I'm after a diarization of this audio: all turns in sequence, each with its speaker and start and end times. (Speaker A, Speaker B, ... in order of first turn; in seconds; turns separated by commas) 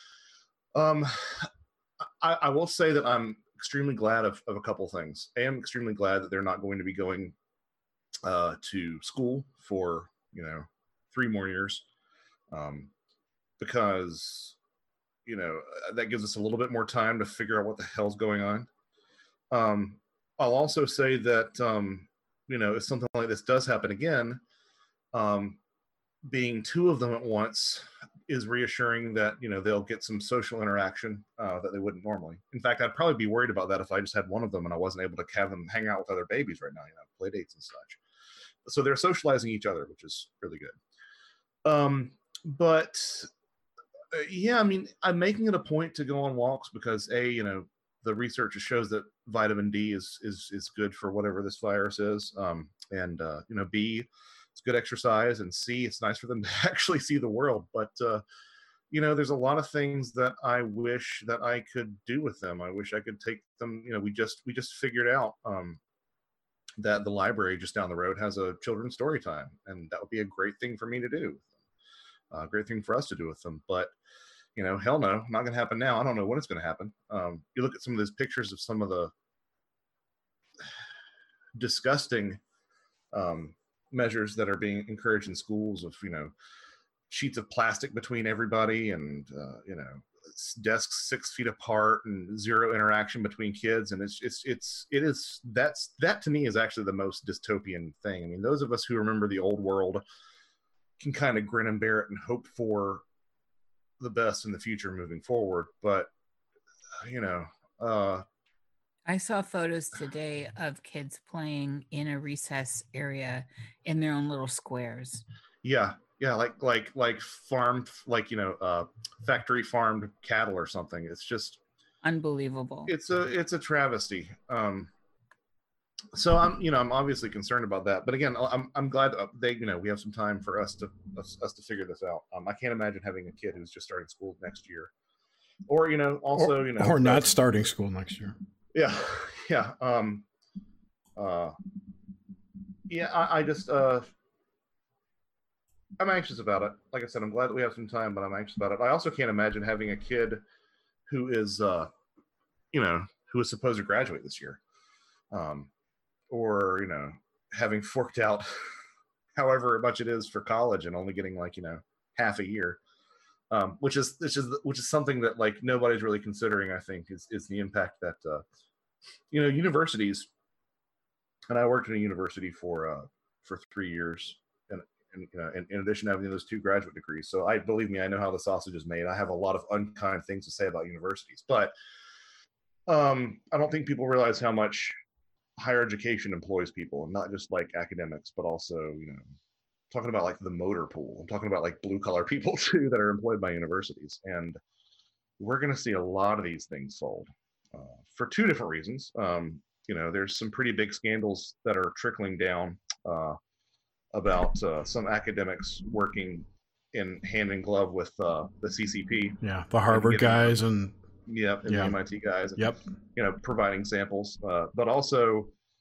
Speaker A: 0.7-1.5, Speaker A: 2.2-7.3, Speaker A: 8.2-11.8, Speaker A: 12.5-12.9, Speaker A: 13.6-14.6, Speaker A: 15.2-18.7, Speaker A: 19.5-24.4, Speaker A: 25.1-25.6, Speaker A: 26.2-38.0, Speaker A: 38.6-40.8, Speaker A: 41.6-43.3, Speaker A: 44.1-58.2, Speaker A: 58.9-65.8, Speaker A: 66.8-71.5, Speaker A: 72.3-73.9, Speaker A: 74.5-79.1, Speaker A: 81.6-82.4, Speaker A: 83.1-86.3, Speaker A: 87.1-100.0, Speaker A: 101.0-103.0, Speaker A: 104.0-106.1, Speaker A: 107.0-108.2, Speaker B: 109.1-115.2, Speaker A: 115.6-121.6, Speaker B: 122.0-122.9, Speaker A: 122.9-124.9, Speaker A: 126.1-134.9, Speaker A: 135.7-137.3, Speaker C: 136.4-138.3, Speaker A: 138.7-140.2, Speaker A: 141.2-141.5, Speaker A: 142.9-144.1, Speaker A: 146.0-150.4, Speaker A: 151.1-151.9, Speaker A: 152.7-154.6, Speaker A: 155.3-155.7, Speaker A: 156.3-158.8, Speaker A: 159.3-162.8, Speaker A: 163.5-168.4, Speaker A: 169.3-170.3, Speaker A: 171.5-181.7, Speaker A: 182.9-184.9, Speaker A: 185.6-189.2, Speaker A: 189.9-194.6, Speaker A: 195.4-203.4, Speaker A: 204.1-210.6, Speaker C: 209.4-210.9, Speaker A: 211.2-215.5, Speaker C: 211.7-212.0, Speaker C: 212.6-212.8